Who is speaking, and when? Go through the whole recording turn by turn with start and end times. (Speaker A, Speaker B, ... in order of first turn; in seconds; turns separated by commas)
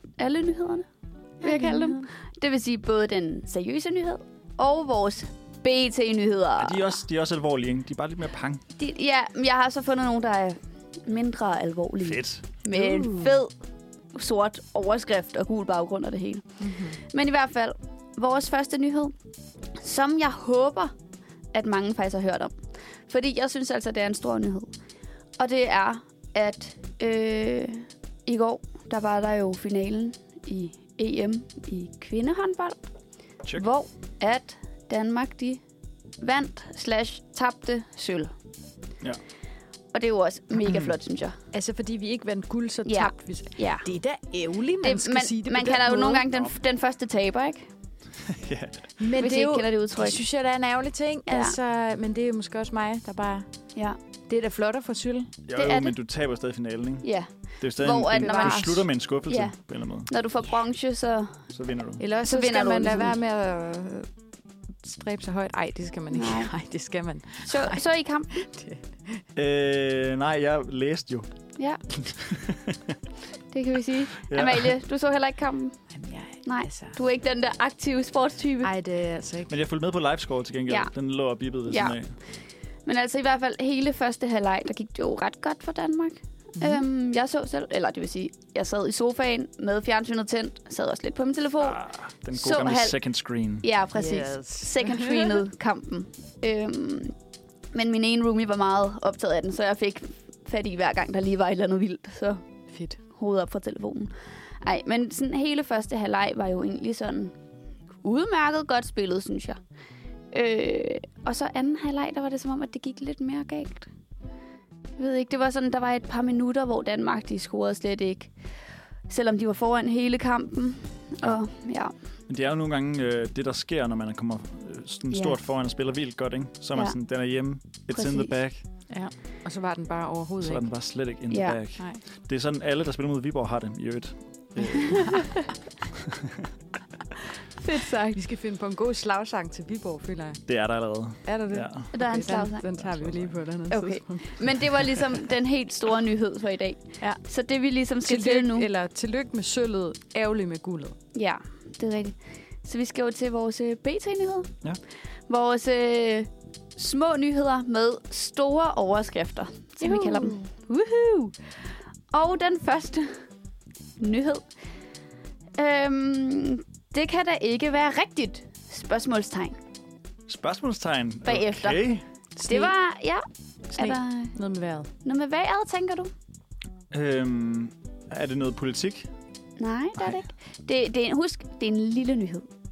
Speaker A: 0.2-0.8, Speaker A: 1.4-6.9, Speaker B: 1.4-2.0, Speaker C: 6.6-8.6, Speaker A: 8.8-13.5, Speaker C: 12.0-12.4, Speaker B: 12.7-13.4, Speaker A: 14.1-19.1, Speaker B: 16.6-17.0, Speaker A: 19.8-20.9, Speaker A: 21.5-22.5, Speaker A: 23.1-24.7, Speaker A: 25.4-32.8, Speaker A: 33.5-35.6, Speaker A: 36.2-38.3, Speaker A: 39.9-41.3, Speaker B: 41.5-46.2, Speaker A: 42.9-43.8, Speaker A: 44.8-47.7, Speaker C: 48.2-48.9, Speaker B: 49.0-53.5, Speaker A: 49.2-50.2, Speaker A: 51.3-51.5, Speaker B: 54.3-55.4, Speaker C: 55.5-57.1, Speaker A: 55.5-55.9, Speaker A: 57.0-58.6, Speaker C: 57.6-60.1, Speaker B: 58.2-58.9, Speaker A: 59.3-59.5, Speaker A: 60.1-61.4, Speaker C: 61.5-62.0, Speaker B: 62.0-64.1, Speaker A: 62.2-63.1, Speaker B: 64.8-69.2, Speaker A: 66.1-66.5, Speaker A: 67.4-68.3, Speaker C: 69.3-71.3, Speaker C: 71.9-73.0, Speaker A: 73.5-75.8, Speaker C: 74.2-74.7, Speaker B: 75.9-77.0, Speaker A: 76.4-78.7, Speaker B: 78.6-79.5, Speaker C: 79.5-82.1, Speaker A: 81.7-81.9, Speaker A: 82.8-91.8, Speaker B: 86.6-86.8, Speaker C: 91.6-93.7, Speaker A: 92.3-93.0, Speaker A: 93.6-97.1, Speaker B: 93.9-95.4, Speaker A: 97.7-102.4, Speaker B: 102.7-103.0, Speaker A: 103.1-107.3, Speaker A: 108.0-109.6, Speaker A: 110.3-113.9, Speaker A: 115.0-118.3, Speaker A: 119.1-121.9, Speaker C: 122.3-128.6, Speaker A: 125.1-125.4, Speaker A: 127.9-128.4, Speaker B: 128.9-130.7, Speaker C: 130.4-135.3, Speaker A: 131.3-131.6, Speaker B: 131.8-132.0, Speaker A: 137.6-138.2, Speaker B: 138.1-140.5, Speaker C: 140.4-141.9, Speaker B: 141.2-144.4, Speaker A: 141.9-142.7, Speaker C: 142.8-143.4, Speaker A: 143.7-148.7, Speaker B: 148.0-150.9, Speaker A: 151.1-154.5, Speaker A: 155.3-161.3, Speaker B: 159.8-160.5, Speaker A: 162.1-163.1, Speaker A: 164.0-164.4, Speaker A: 165.6-169.6, Speaker C: 170.3-172.0, Speaker A: 171.2-171.9, Speaker B: 172.3-172.7, Speaker A: 172.4-173.2, Speaker A: 173.7-174.3, Speaker B: 173.7-174.9, Speaker A: 175.0-176.1, Speaker C: 176.9-179.1, Speaker A: 179.6-182.5, Speaker C: 180.0-180.2